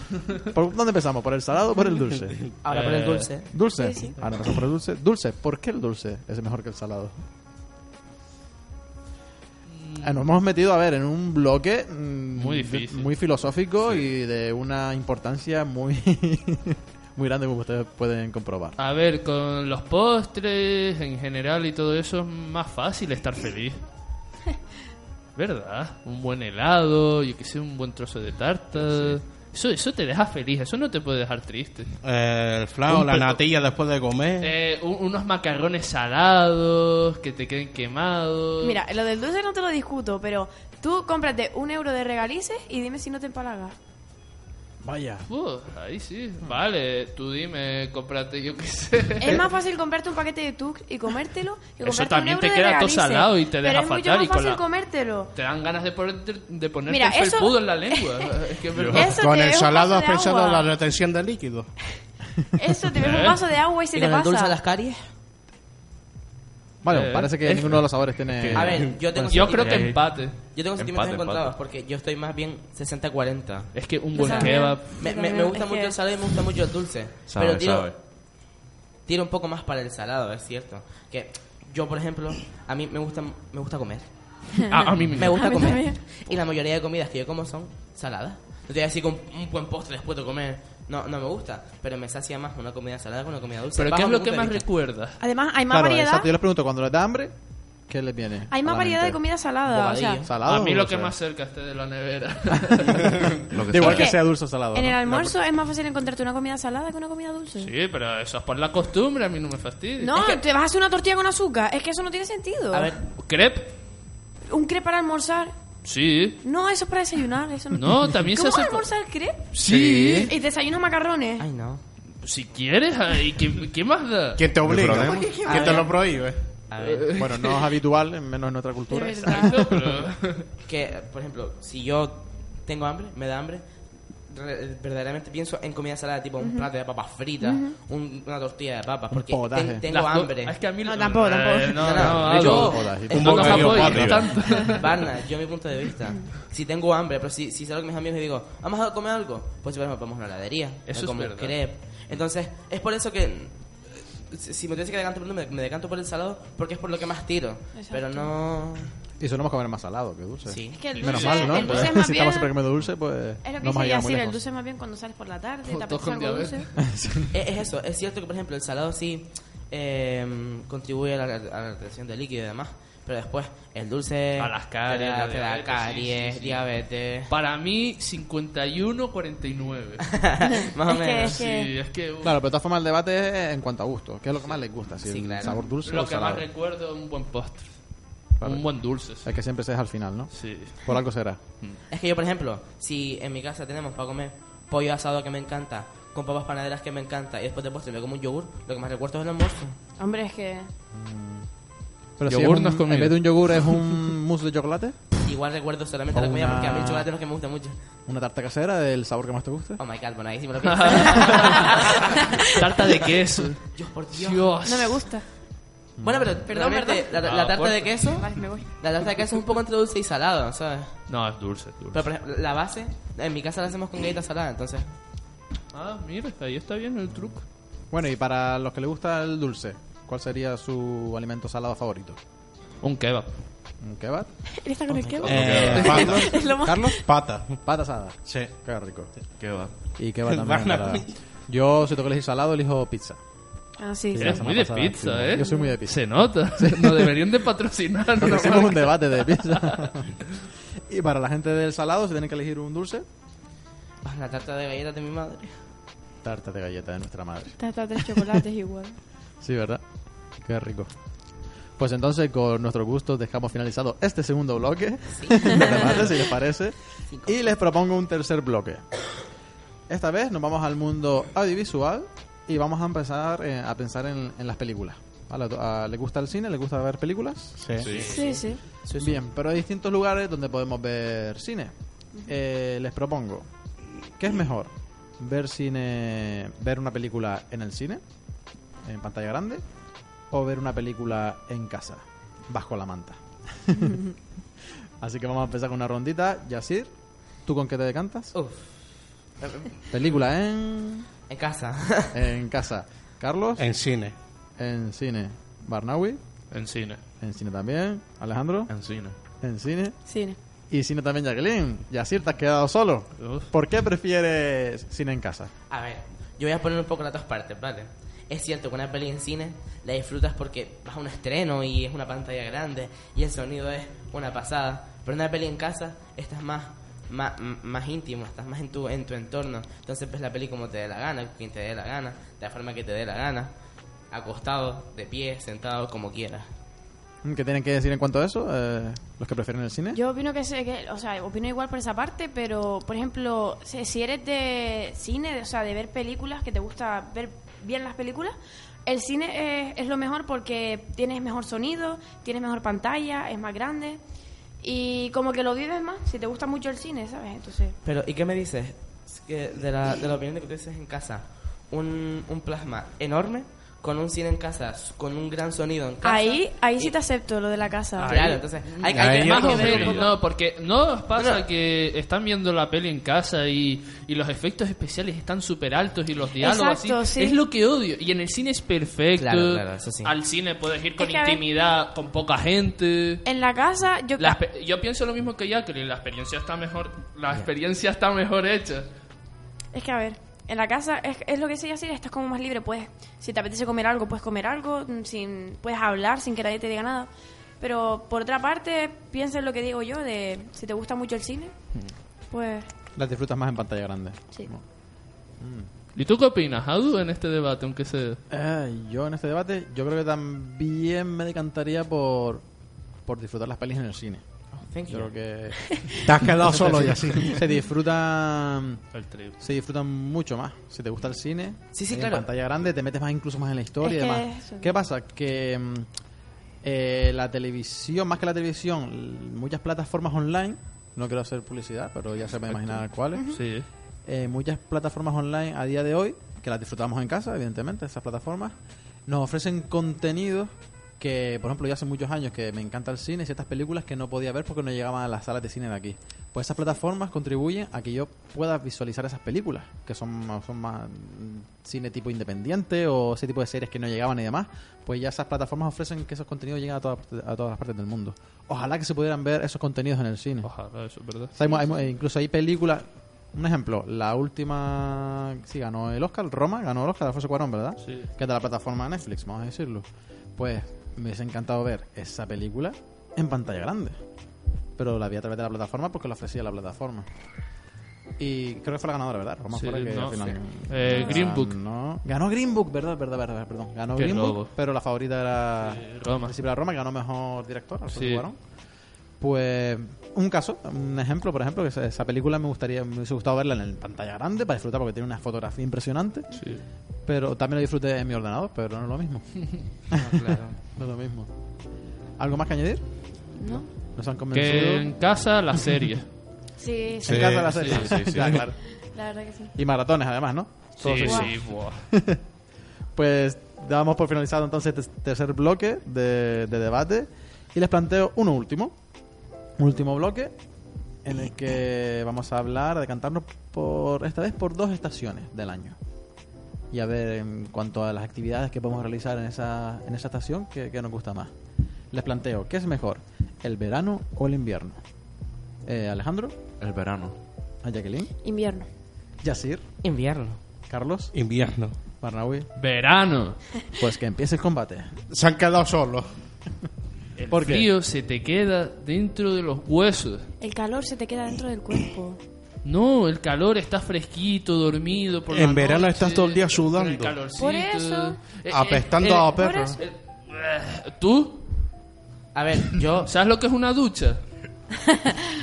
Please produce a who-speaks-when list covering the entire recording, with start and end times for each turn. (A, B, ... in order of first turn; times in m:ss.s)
0:00.4-0:02.4 A
0:02.6-0:03.5 B
0:02.7-0:03.3 C
0:03.5-0:07.2 A
0:03.8-0:04.2 D
0:09.7-0:10.2 C
0:10.0-0:18.8 A
0:12.4-0:13.1 C
0:18.8-0:23.8 C
0:25.4-0:32.0 C
0:32.0-0:34.5 E
0:34.4-0:38.8 C
0:38.6-0:43.8 D
0:44.8-0:45.3 A
0:45.3-0:49.5 C
0:49.2-0:55.3 D
0:51.8-0:54.6 C
0:55.4-0:59.1 C
0:56.9-0:58.2 D
0:58.9-1:01.7 E
0:58.9-1:00.7 D
1:02.6-1:04.6 D
1:03.0-1:03.4 C
1:03.9-1:05.0 B
1:06.8-1:09.2 A
1:06.9-1:07.9 C
1:07.6-1:11.6 F
1:08.5-1:17.9 B
1:09.3-1:10.4 C
1:13.7-1:14.9 C
1:14.1-1:16.0 D
1:17.3-1:18.0 F
1:19.1-1:34.6 B
1:24.7-1:25.6 C
1:25.4-1:26.1 D
1:33.8-1:35.2 C
1:35.2-1:36.3 D
1:35.7-1:37.3 A
1:37.9-1:39.2 A
1:38.5-1:40.2 D
1:39.6-1:40.3 B
1:40.2-1:41.1 A
1:40.4-1:43.4 C
1:42.9-1:43.2 A
1:43.5-1:44.1 F
1:43.7-1:45.3 A
1:43.8-1:47.7 D
1:47.6-1:50.3 C
1:50.0-1:53.0 D
1:52.7-1:53.0 B
1:53.2-1:53.7 C
1:54.5-1:55.5 D
1:55.8-1:56.4 C
1:56.4-1:59.5 D
1:57.8-1:58.9 C
1:59.5-2:00.3 C
1:59.7-2:00.2 E
2:00.2-2:01.5 D
2:01.4-2:01.8 B
2:02.2-2:04.4 C
2:04.4-2:06.4 E
2:04.6-2:05.4 F
2:05.4-2:06.0 B
2:06.7-2:07.1 B
2:06.8-2:07.7 C
2:07.2-2:10.1 A
2:08.9-2:09.7 D
2:09.2-2:10.5 C
2:10.6-2:13.7 B
2:14.2-2:20.6 B
2:16.4-2:16.7 D
2:17.4-2:17.8 D
2:19.1-2:19.8 A
2:19.9-2:24.9 C
2:20.8-2:22.1 D
2:21.8-2:38.9 B
2:22.1-2:23.9 A
2:23.1-2:24.4 E
2:23.9-2:24.2 F
2:24.4-2:24.7 D
2:30.9-2:31.6 C
2:37.8-2:38.3 D
2:39.2-2:44.4 A
2:40.5-2:40.8 B
2:40.8-2:42.6 D
2:41.0-2:41.9 C
2:43.4-2:46.7 D
2:45.7-2:46.7 C
2:46.8-2:47.3 A
2:47.3-2:57.3 B
2:54.4-2:56.6 C
2:57.3-3:00.2 C
3:00.1-3:01.4 B
3:00.8-3:01.7 D
3:01.2-3:02.4 C
3:02.2-3:06.5 A
3:05.0-3:05.6 B
3:05.8-3:07.8 C
3:08.4-3:11.4 A
3:08.4-3:09.3 C
3:10.3-3:10.8 C
3:11.9-3:19.8 B
3:20.0-3:20.7 D
3:20.9-3:21.5 A
3:22.2-3:25.1 A
3:22.3-3:23.7 C
3:25.2-3:27.8 B
3:26.1-3:27.1 A
3:28.1-3:29.8 A
3:29.8-3:32.0 B
3:30.7-3:31.9 C
3:32.5-3:35.1 C
3:33.6-3:34.5 B
3:34.6-3:35.3 D
3:36.0-3:36.3 A
3:36.0-3:41.2 B
3:36.5-3:37.1 D
3:37.2-3:38.0 C
3:38.2-3:38.7 D
3:41.1-3:42.1 C
3:41.9-3:44.9 B
3:45.7-3:47.4 C
3:47.9-3:52.2 A
3:52.8-3:53.3 C
3:53.8-3:54.3 A
3:54.6-3:57.0 D
3:54.9-3:55.3 B
3:55.2-3:57.6 E
3:55.3-3:56.0 F
3:55.7-3:56.2 C
3:56.6-3:59.1 A
3:58.3-3:58.5 E
3:59.4-3:59.7 F
4:00.0-4:03.2 A
4:00.3-4:01.1 E
4:03.8-4:04.5 D
4:04.1-4:07.2 A
4:04.2-4:09.9 C
4:05.4-4:05.7 D
4:08.2-4:10.2 A
4:10.9-4:13.0 A
4:14.0-4:15.6 B
4:16.2-4:18.4 A
4:17.6-4:19.0 D
4:19.4-4:19.8 A
4:20.4-4:20.9 A
4:21.8-4:28.9 A
4:25.1-4:26.1 B
4:25.5-4:25.8 D
4:27.1-4:27.4 B
4:29.9-4:37.6 A
4:37.6-4:38.0 E
4:37.8-4:38.2 F
4:37.9-4:38.4 C
4:38.0-4:38.6 D
4:38.0-4:39.2 B
4:39.0-4:41.7 A
4:42.2-4:43.5 A
4:44.2-4:48.0 A
4:48.8-4:49.6 A
4:50.3-4:54.0 A
4:55.0-4:56.9 A
4:57.4-4:58.3 A
4:58.3-4:58.7 B
4:59.4-4:59.8 B
4:59.9-5:01.1 A
5:01.3-5:02.2 B
5:02.1-5:03.7 A
5:03.6-5:04.2 E
5:04.6-5:06.2 A
5:06.5-5:07.0 C
5:07.2-5:08.7 A
5:08.7-5:09.2 F
5:09.4-5:10.0 A
5:10.1-5:10.4 D
5:10.7-5:15.5 A
5:13.2-5:13.5 C
5:15.7-5:33.5 B
5:34.1-5:36.5 B
5:37.2-5:40.0 A
5:39.9-5:54.0 D
5:54.6-5:57.8 D
5:57.8-6:06.9 B
6:06.0-6:08.2 D
6:08.0-6:23.2 C
6:08.0-6:10.2 B
6:09.0-6:09.9 E
6:09.2-6:10.0 F
6:11.2-6:11.4 B
6:16.4-6:17.4 D
6:19.2-6:20.1 B
6:21.0-6:21.4 D
6:23.2-6:24.4 D
6:24.2-6:28.9 C
6:29.7-6:37.1 D
6:37.6-6:41.6 D
6:42.3-6:42.7 D
6:43.0-6:44.6 A
6:45.4-6:45.7 A
6:46.0-6:48.2 C
6:48.3-6:52.4 A
6:53.1-6:54.2 A
6:54.6-6:55.1 B
6:54.9-6:58.8 A
6:56.0-6:57.4 E
6:58.9-6:59.4 C
6:59.4-7:05.9 A
7:01.7-7:02.3 B
7:03.8-7:04.7 D
7:06.6-7:13.4 A
7:13.3-7:13.7 C
7:14.1-7:18.5 A
7:19.1-7:40.5 A
7:40.4-7:41.3 C
7:41.3-7:54.0 A
7:47.8-7:48.1 C
7:54.8-7:57.1 A
7:58.2-8:08.4 A
7:59.5-8:01.5 C
8:00.9-8:01.2 D
8:04.0-8:04.5 C
8:05.7-8:06.4 C
8:07.9-8:08.2 C
8:09.2-8:16.4 A
8:16.3-8:16.6 C
8:17.1-8:19.6 A
8:19.9-8:20.6 B
8:20.8-8:21.3 A
8:22.2-8:24.9 A
8:23.4-8:23.7 D
8:24.3-8:26.1 C
8:26.6-8:27.2 D
8:27.0-8:28.6 A
8:27.1-8:27.7 E
8:27.6-8:27.9 C
8:27.7-8:28.4 F
8:28.8-8:29.5 D
8:29.6-8:32.2 A
8:30.8-8:31.9 C
8:31.0-8:31.3 D
8:33.0-8:38.8 A
8:39.6-8:40.3 A
8:41.0-8:45.8 A
8:46.7-8:51.3 A
8:51.9-8:54.8 A
8:55.6-8:56.4 A
8:56.6-8:57.2 F
8:57.6-8:58.1 A
8:58.2-8:58.7 D
8:59.2-8:59.6 A
8:59.8-9:00.4 B
9:00.7-9:01.1 A
9:01.1-9:01.8 E
9:02.0-9:02.5 A
9:02.6-9:03.4 C
9:03.8-9:04.9 A
9:05.1-9:06.1 E
9:07.2-9:10.3 C
9:07.3-9:07.7 A
9:10.4-9:12.2 D
9:12.6-9:21.5 C
9:15.3-9:17.2 E
9:17.4-9:18.2 D
9:18.5-9:19.8 E
9:19.3-9:19.8 D
9:22.3-9:23.1 B
9:23.0-9:24.2 C